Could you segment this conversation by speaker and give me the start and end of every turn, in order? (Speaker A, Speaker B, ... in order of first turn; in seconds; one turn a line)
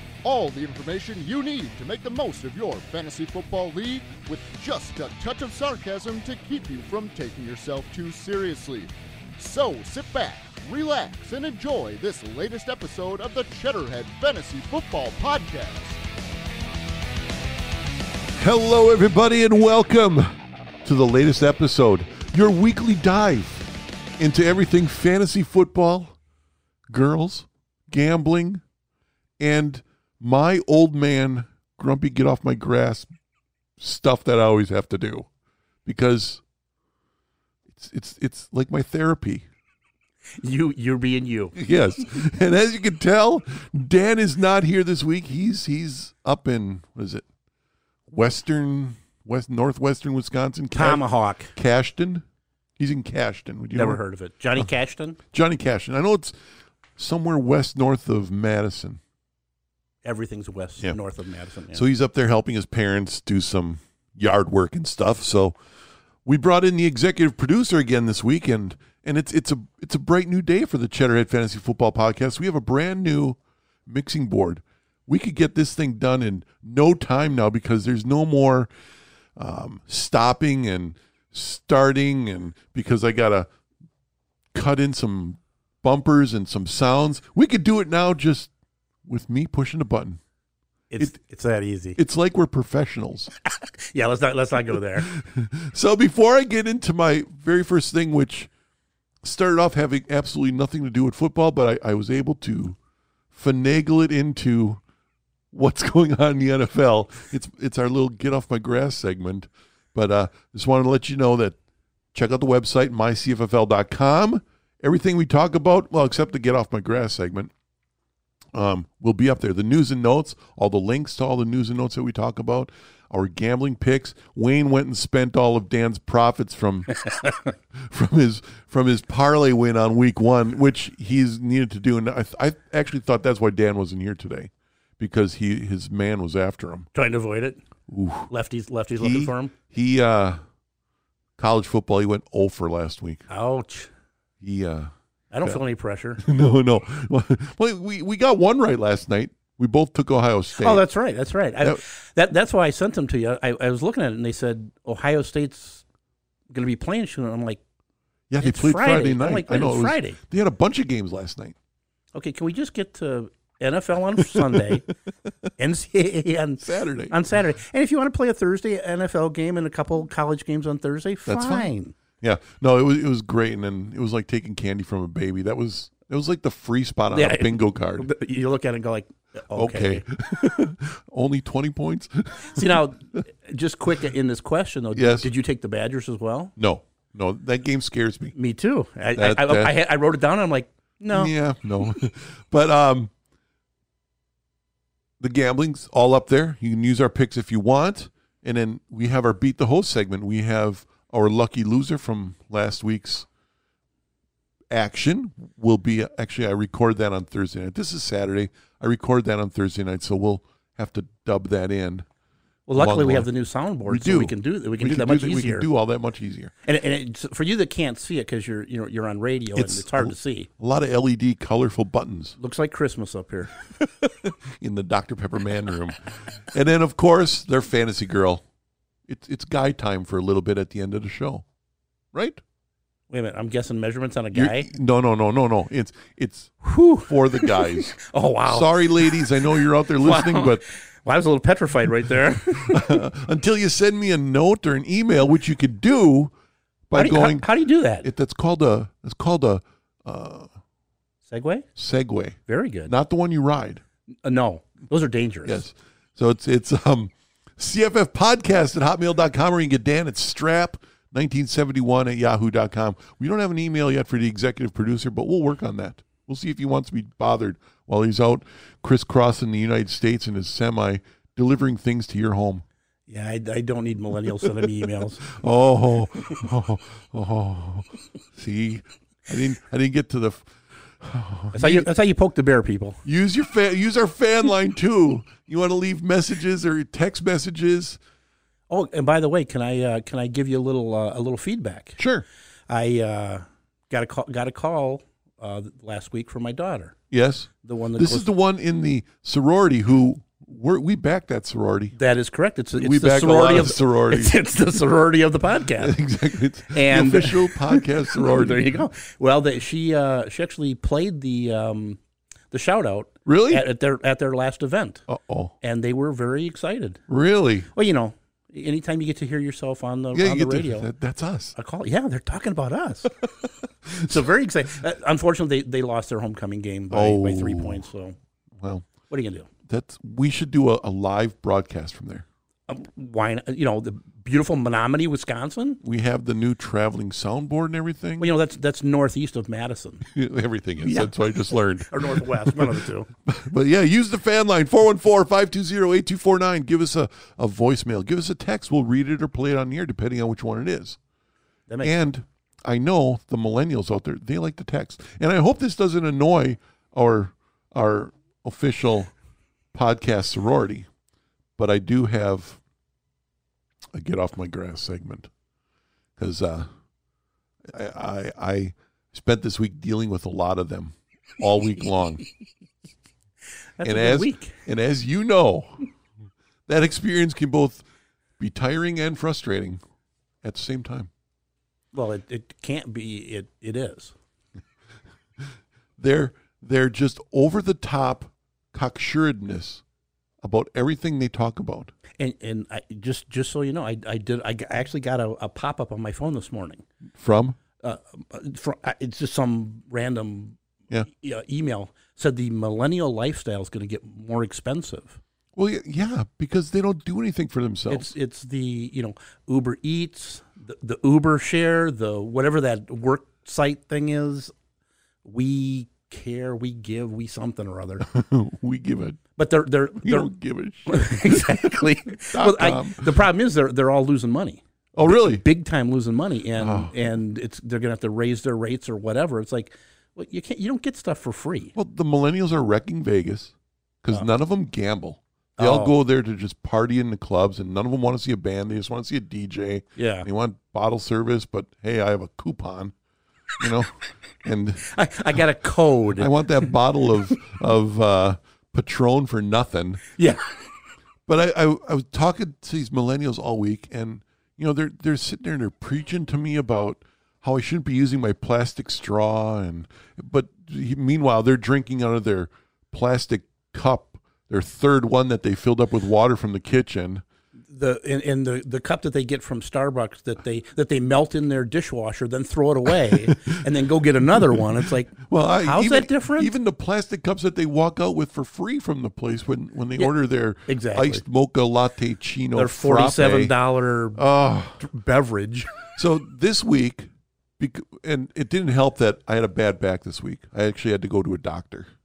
Speaker A: 0.2-16.0
Speaker B: 18.4-20.3
Speaker B: 20.8-26.1
Speaker B: 26.9-28.6
Speaker B: 29.4-33.1
Speaker B: 33.8-35.3
Speaker B: 35.9-36.4
Speaker B: 37.7-39.5
Speaker C: 40.4-41.5
Speaker B: 41.5-47.2
Speaker B: 48.1-52.2
Speaker C: 50.7-51.5
Speaker B: 52.8-54.0
Speaker C: 53.7-55.2
Speaker B: 55.3-56.4
Speaker B: 57.0-59.0
Speaker C: 60.0-61.9
Speaker B: 61.7-65.6
Speaker B: 66.2-78.7
Speaker B: 79.4-83.5
Speaker B: 84.5-88.5
Speaker B: 89.0-90.2
Speaker C: 90.9-92.0
Speaker B: 92.0-93.3
Speaker C: 93.5-95.1
Speaker B: 95.0-98.5
Speaker B: 99.2-102.8
Speaker B: 103.3-104.8
Speaker B: 105.5-111.6
Speaker B: 112.1-117.5
Speaker B: 118.5-126.9
Speaker C: 127.0-127.5
Speaker B: 127.7-136.9
Speaker C: 136.9-137.6
Speaker B: 137.9-138.3
Speaker C: 138.3-139.5
Speaker B: 139.0-140.4
Speaker B: 141.4-143.3
Speaker C: 143.3-143.9
Speaker B: 144.4-145.6
Speaker C: 145.3-146.2
Speaker B: 146.2-150.8
Speaker C: 150.6-155.8
Speaker C: 156.5-157.6
Speaker B: 158.3-161.6
Speaker C: 158.4-160.2
Speaker C: 162.2-164.8
Speaker B: 164.2-164.8
Speaker C: 165.6-171.9
Speaker B: 166.6-167.2
Speaker B: 171.3-178.1
Speaker C: 177.1-180.0
Speaker B: 179.5-182.9
Speaker C: 182.5-186.5
Speaker B: 184.9-185.3
Speaker B: 186.6-188.3
Speaker C: 188.3-191.3
Speaker B: 189.2-189.8
Speaker B: 191.1-193.1
Speaker B: 195.2-203.3
Speaker B: 204.7-212.1
Speaker C: 212.7-215.7
Speaker B: 212.7-213.3
Speaker B: 213.9-216.5
Speaker C: 216.6-220.5
Speaker B: 219.6-222.4
Speaker C: 222.4-223.5
Speaker B: 223.8-228.4
Speaker B: 229.1-231.4
Speaker B: 232.1-232.4
Speaker C: 233.1-234.7
Speaker B: 234.3-240.6
Speaker C: 236.6-243.0
Speaker B: 242.6-246.3
Speaker B: 246.9-247.5
Speaker C: 246.9-248.1
Speaker B: 248.0-250.5
Speaker C: 251.3-251.7
Speaker B: 251.8-253.8
Speaker C: 252.5-252.9
Speaker C: 254.2-255.6
Speaker B: 255.4-272.6
Speaker C: 273.1-275.3
Speaker B: 274.6-281.9
Speaker C: 281.5-283.0
Speaker B: 283.1-288.0
Speaker C: 288.7-292.0
Speaker B: 292.0-292.2
Speaker C: 292.7-297.0
Speaker B: 297.1-302.0
Speaker C: 297.6-298.3
Speaker C: 301.9-306.0
Speaker B: 302.8-304.4
Speaker B: 305.8-308.9
Speaker C: 306.7-312.0
Speaker C: 312.5-315.1
Speaker B: 313.3-313.7
Speaker B: 315.1-315.5
Speaker C: 315.6-317.0
Speaker B: 317.1-317.7
Speaker C: 317.8-320.9
Speaker B: 320.1-321.6
Speaker C: 321.6-323.2
Speaker B: 323.9-324.3
Speaker C: 324.1-328.2
Speaker B: 326.9-327.9
Speaker B: 328.6-328.9
Speaker C: 329.1-329.5
Speaker B: 329.7-332.2
Speaker C: 332.7-335.8
Speaker B: 335.8-338.3
Speaker C: 338.2-340.1
Speaker B: 340.1-351.0
Speaker C: 340.8-343.1
Speaker C: 351.7-351.9
Speaker B: 351.8-359.1
Speaker B: 359.7-360.9
Speaker B: 361.6-362.6
Speaker B: 363.9-365.3
Speaker B: 366.2-366.7
Speaker B: 367.7-372.2
Speaker C: 373.8-374.6
Speaker B: 373.8-375.9
Speaker B: 376.7-377.9
Speaker B: 378.4-379.8
Speaker B: 380.4-381.1
Speaker C: 381.9-384.1
Speaker B: 385.4-389.8
Speaker B: 390.4-391.9
Speaker C: 392.2-396.9
Speaker B: 397.1-397.6
Speaker C: 397.8-405.2
Speaker B: 405.6-408.1
Speaker C: 407.9-414.5
Speaker C: 415.2-418.1
Speaker B: 418.1-419.2
Speaker C: 419.4-420.3
Speaker B: 420.0-421.7
Speaker C: 420.9-431.7
Speaker B: 422.2-423.1
Speaker B: 424.9-425.4
Speaker B: 426.6-426.9
Speaker B: 431.8-442.9
Speaker C: 435.6-436.0
Speaker C: 440.0-440.3
Speaker B: 443.6-444.9
Speaker C: 444.9-446.8
Speaker B: 446.2-450.1
Speaker C: 450.2-450.4
Speaker B: 451.3-467.2
Speaker C: 467.7-476.5
Speaker B: 473.0-473.4
Speaker B: 474.3-474.6
Speaker B: 475.2-483.6
Speaker C: 480.7-481.2
Speaker C: 482.6-484.2
Speaker B: 484.1-484.9
Speaker C: 484.8-485.7
Speaker B: 486.0-491.9